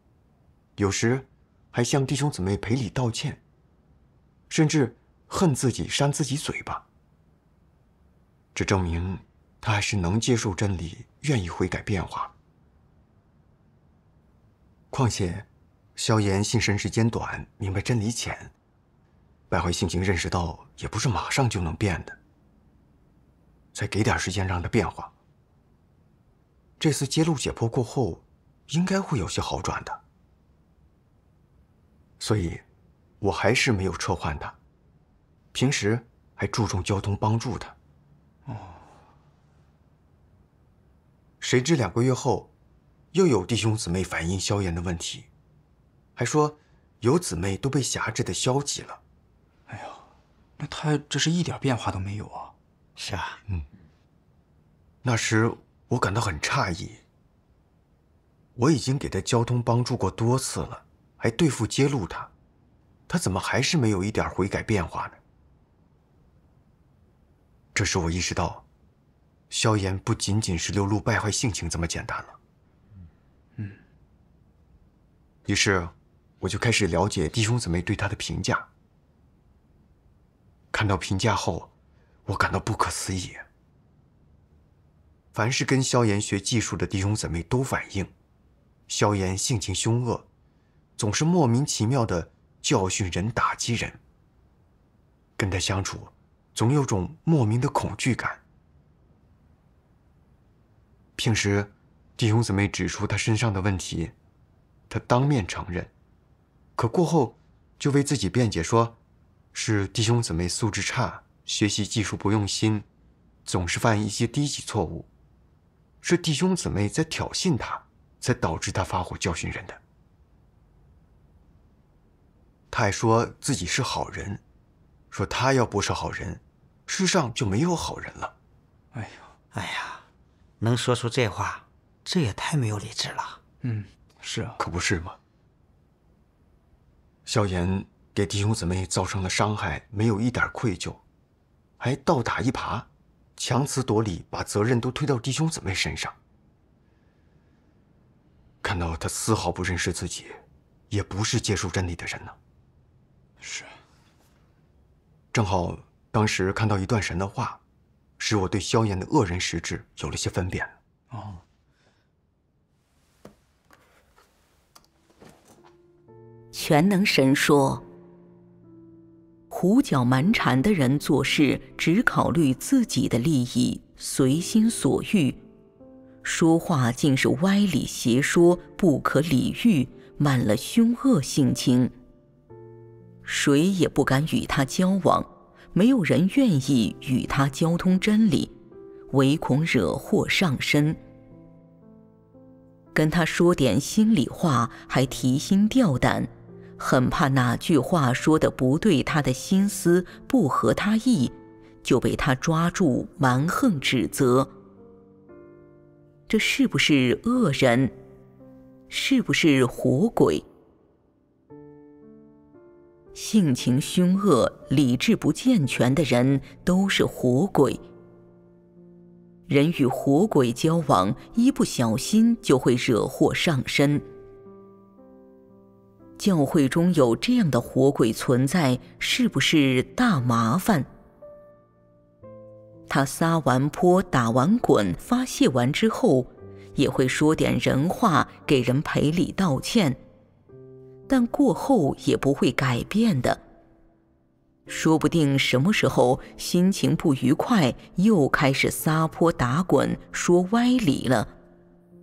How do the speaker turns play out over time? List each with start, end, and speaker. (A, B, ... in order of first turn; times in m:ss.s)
0:00.8-0:03.4 A
0:04.5-0:06.8 A
0:08.5-0:12.3 A
0:14.9-0:18.5 A
0:19.5-0:22.2 A
0:23.7-0:25.1 A
0:26.8-0:30.0 A
0:32.2-0:32.6 A
0:33.2-0:34.6 A
0:35.5-0:37.7 A
0:38.5-0:38.8 B
0:41.4-0:42.5 A
0:43.1-0:45.3 A
0:46.2-0:49.0 A
0:49.7-0:50.0 B
0:50.6-0:52.5 B
0:53.0-0:53.4 C
0:55.0-0:57.0 A
0:58.6-1:02.3 A
1:03.1-1:05.2 A
1:07.7-1:08.6 A
1:09.5-1:12.4 A
1:15.4-1:18.7 A
1:20.7-1:21.7 A
1:22.3-1:23.4 A
1:25.3-1:28.1 A
1:28.9-1:30.3 A
1:31.0-1:34.0 A
1:35.4-1:38.4 A
1:41.2-1:44.1 A
1:44.9-1:45.9 A
1:46.8-1:49.0 A
1:49.5-1:52.8 A
1:53.4-1:55.1 A
1:56.0-1:59.8 A
2:02.7-2:04.4 A
2:05.1-2:08.3 A
2:08.9-2:09.3 B
2:09.5-2:10.0 C
2:10.6-2:13.4 C
2:13.6-2:14.6 B
2:14.6-2:15.2 A
2:17.2-2:21.0 A
2:21.8-2:26.2 A
2:28.6-2:32.4 A
2:33.4-2:33.7 B
2:35.3-2:37.6 A
2:38.2-2:40.7 A
2:41.1-2:41.4 B
2:46.5-2:47.8 D
2:49.5-2:55.4 D
2:56.2-3:01.9 D
3:03.2-3:08.5 D
3:09.1-3:11.0 D
3:12.9-3:24.5 D
3:26.3-3:27.9 D
3:28.9-3:30.4 D
3:33.1-3:37.8 D
3:39.5-3:44.0 D
3:46.2-3:50.9 D
3:52.9-4:00.0 D
4:01.1-4:03.4 D
4:04.7-4:11.3 D